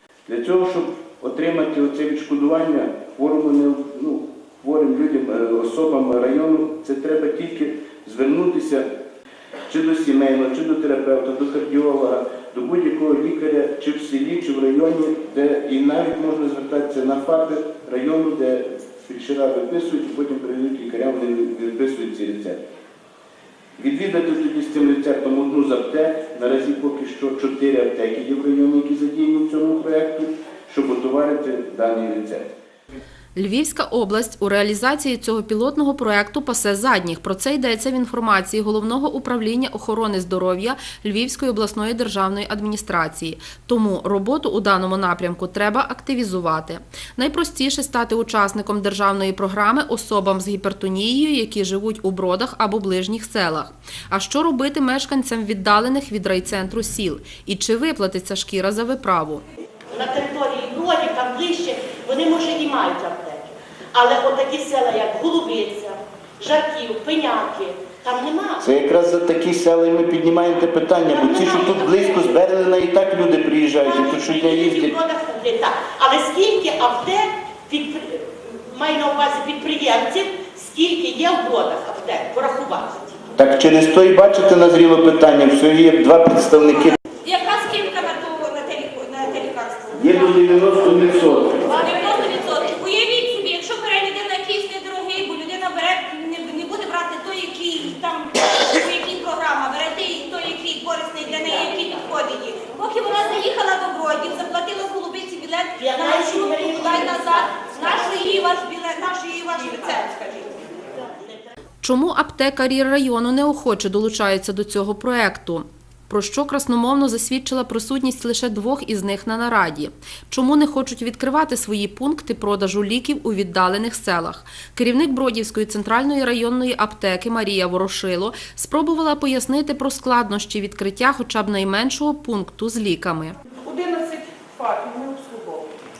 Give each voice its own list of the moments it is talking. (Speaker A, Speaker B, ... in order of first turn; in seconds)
Speaker A: 0.3-8.8, 9.7-22.6, 23.8-32.5, 68.6-75.0, 83.4-87.0, 90.0-91.8
Speaker B: 33.4-59.4, 111.8-133.4
Speaker C: 59.9-68.6, 71.1-72.4, 73.8-83.2, 105.8-108.5, 111.0-111.3
Speaker D: 87.2-90.7, 91.7-110.6
Speaker E: 133.6-135.8